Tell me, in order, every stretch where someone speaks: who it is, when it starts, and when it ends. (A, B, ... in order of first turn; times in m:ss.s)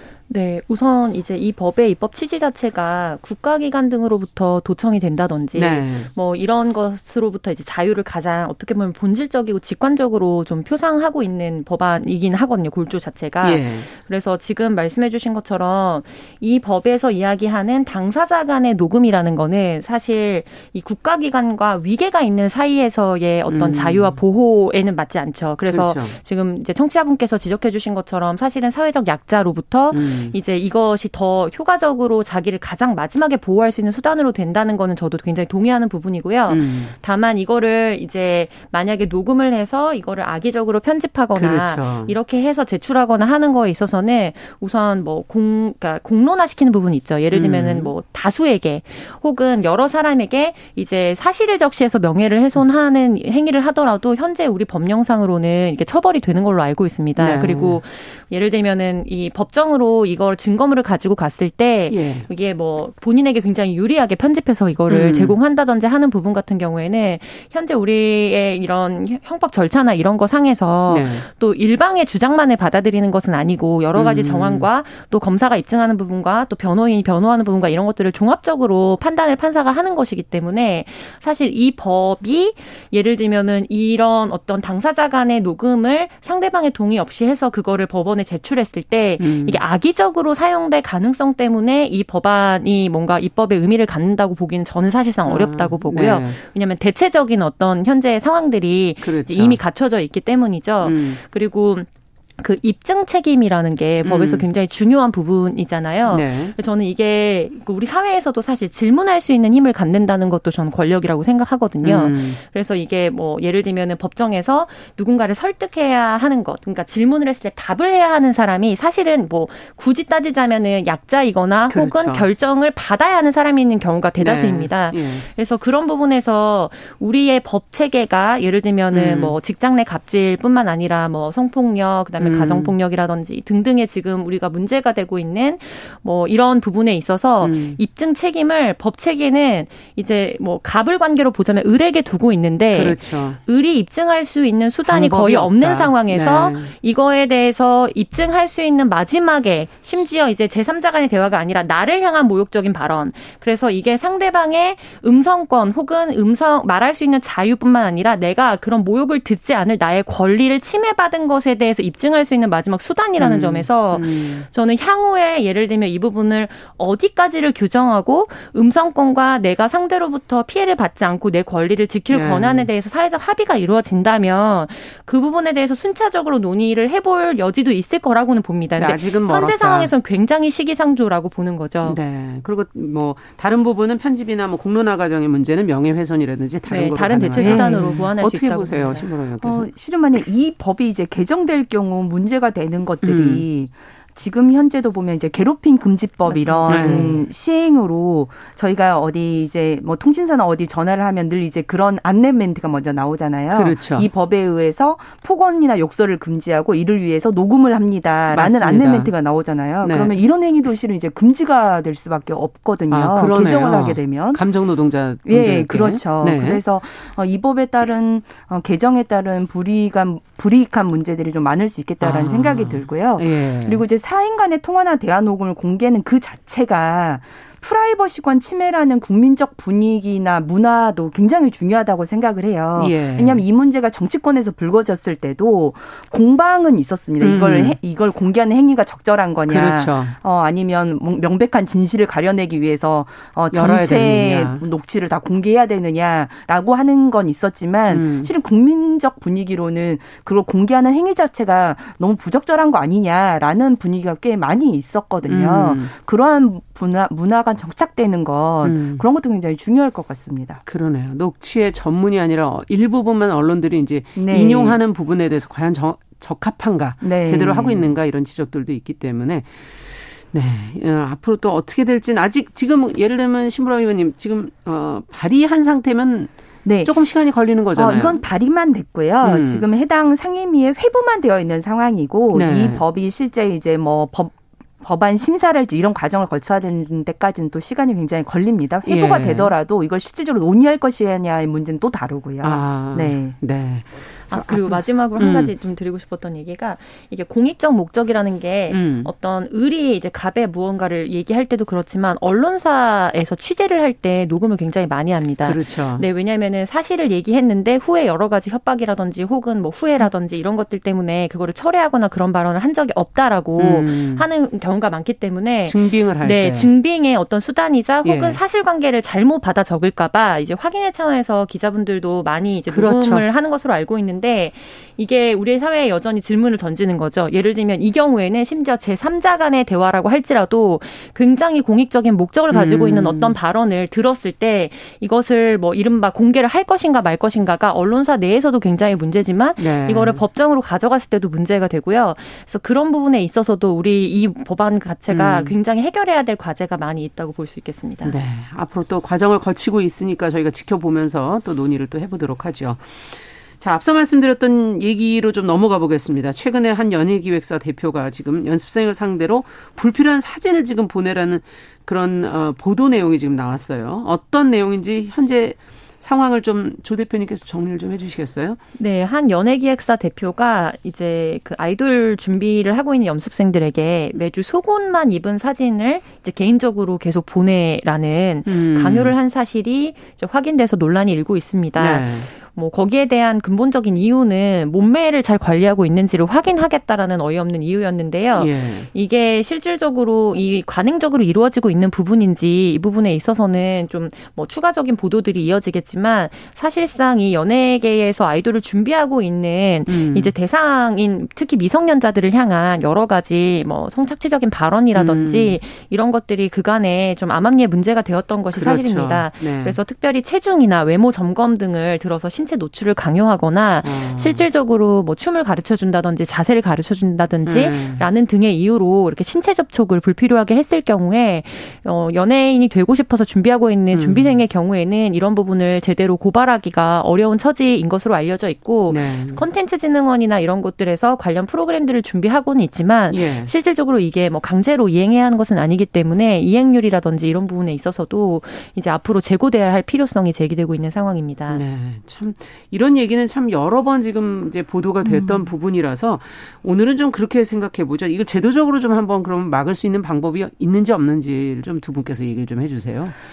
0:00.3-1:41.9 A
0:05.6-0:06.1 B
0:13.4-0:13.9 B
0:23.5-0:24.2 B
0:25.7-0:26.2 B
0:29.9-0:30.4 B
0:36.5-0:36.9 B
0:41.4-0:42.1 B
0:47.3-0:47.9 B
0:57.2-0:57.8 B
1:01.9-1:02.3 B
1:04.9-1:05.4 B
1:10.9-1:11.3 B
1:13.9-1:14.7 B
1:29.2-1:29.6 B
1:35.3-1:36.4 B
1:39.0-1:39.6 B
1:40.8-1:41.2 B
1:42.4-3:02.0 A
1:44.0-1:44.4 B
1:46.1-1:46.6 B
1:51.8-1:52.4 B
2:01.7-2:02.3 B
2:04.2-2:05.3 B
2:08.9-2:09.4 B
2:12.2-2:12.7 B
2:17.4-2:17.8 B
2:22.7-2:23.4 B
2:24.9-2:26.7 B
2:43.2-2:44.5 B
2:52.1-2:52.7 B
2:58.8-2:59.9 B
3:01.8-3:09.7 B
3:06.7-3:09.1 A
3:07.4-3:08.0 C
3:09.4-3:34.4 C
3:13.0-3:13.4 B
3:16.3-3:17.2 A
3:16.7-3:17.2 B
3:23.5-3:24.1 B
3:28.3-3:29.1 B
3:29.8-3:30.2 B
3:32.9-3:36.6 B
3:35.3-4:20.6 C
3:42.0-3:43.8 B
3:52.8-3:53.4 B
3:57.2-3:57.8 B
3:59.5-4:00.2 B
4:03.5-4:04.6 B
4:07.9-4:08.3 B
4:15.3-4:15.9 B
4:18.6-4:19.0 B
4:20.7-4:38.2 B
4:24.2-4:24.8 C
4:27.0-4:27.9 C
4:36.6-4:37.0 C
4:37.8-4:53.4 C
4:39.2-4:39.6 B
4:42.3-4:42.8 B
4:48.8-4:49.5 B
4:52.4-4:55.5 B
4:54.3-5:48.2 A
4:58.7-4:59.1 B
5:05.4-5:06.1 B
5:13.6-5:14.2 B
5:15.6-5:16.7 B
5:18.0-5:18.4 B
5:22.7-5:23.3 B
5:32.5-5:33.4 B
5:39.6-5:40.2 B
5:45.1-5:45.6 B
5:48.0-6:08.6 B
6:08.8-7:21.6 A
6:18.5-6:19.1 B
6:21.8-6:22.3 B
6:28.4-6:28.9 B
6:39.9-6:40.3 B
6:44.9-6:45.6 B
6:48.5-6:49.8 B
6:53.8-6:54.5 B
6:57.4-6:58.1 B
7:03.9-7:04.4 B
7:08.9-7:09.4 B
7:13.1-7:13.5 B
7:21.5-7:33.2 B
7:25.0-7:25.5 C